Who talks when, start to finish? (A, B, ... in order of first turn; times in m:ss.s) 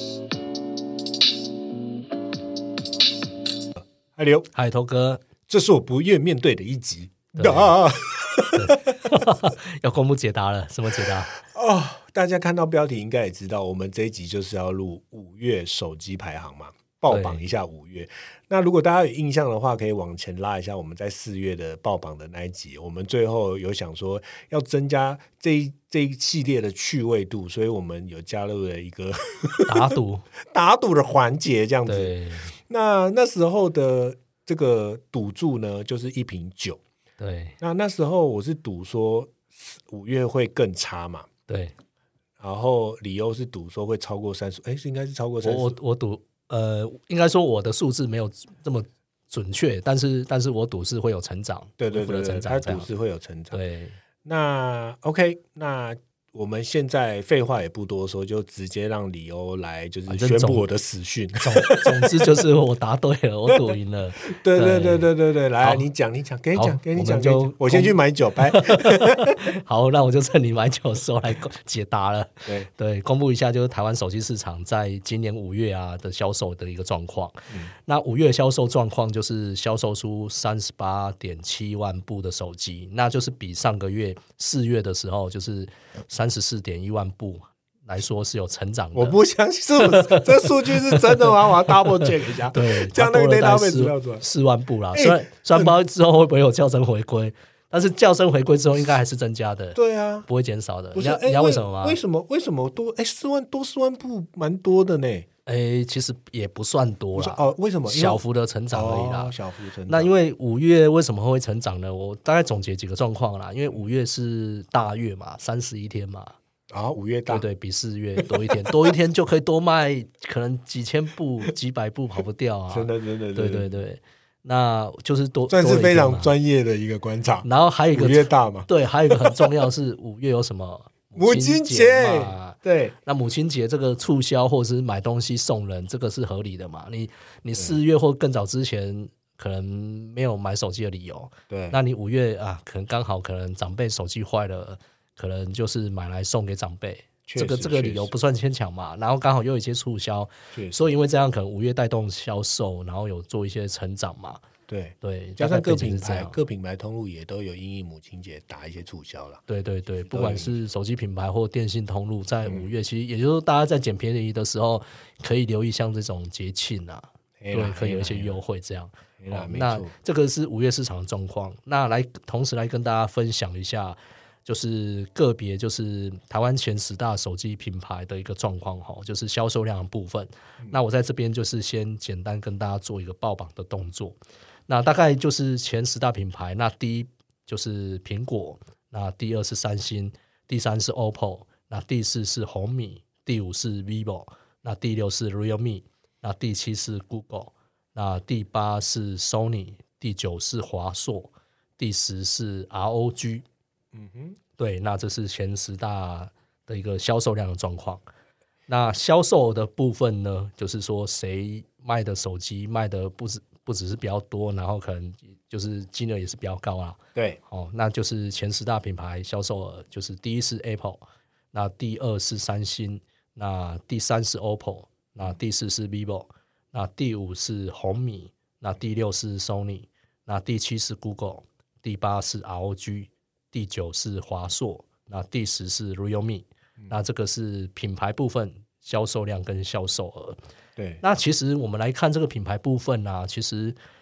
0:04.2-0:04.5 A
0:04.5-0:05.2 B
0:05.5-0:09.2 A
0:07.4-0:07.8 B
0:08.6-0:11.3 B
0:11.3-0:29.9 A
0:17.1-0:17.4 B
0:29.7-0:30.3 B
0:30.5-0:32.2 A
0:31.9-0:32.5 B
0:32.7-0:36.8 A
0:37.2-0:37.6 B
0:37.6-0:41.3 A
0:41.5-0:41.7 B
0:42.4-0:45.8 A
0:45.4-0:52.9 B
0:51.8-0:53.6 A
0:53.5-0:54.0 B
0:54.2-1:02.3 A
1:00.1-1:00.7 B
1:01.4-1:05.8 B
1:03.5-1:09.4 A
1:06.5-1:29.2 B
1:28.9-1:34.2 A
1:29.8-1:42.0 B
1:34.9-1:35.8 A
1:39.8-1:40.3 A
1:41.0-1:45.3 A
1:45.5-1:49.3 B
1:47.1-1:50.1 A
1:49.9-1:56.4 B
1:56.7-1:57.5 A
1:57.3-2:06.4 B
1:58.2-1:58.9 A
2:02.7-2:03.7 A
2:05.5-2:09.6 A
2:07.4-2:34.4 B
2:11.2-2:13.0 A
2:21.5-2:21.8 A
2:27.3-2:28.1 A
2:34.7-2:39.4 A
2:35.0-2:36.4 B
2:39.5-3:23.4 B
2:40.1-2:40.6 A
2:47.4-2:48.4 A
2:49.2-2:49.9 A
3:23.9-3:24.4 A
3:24.6-3:28.0 B
3:28.7-4:00.4 B
4:00.8-4:01.0 A
4:01.0-4:03.8 B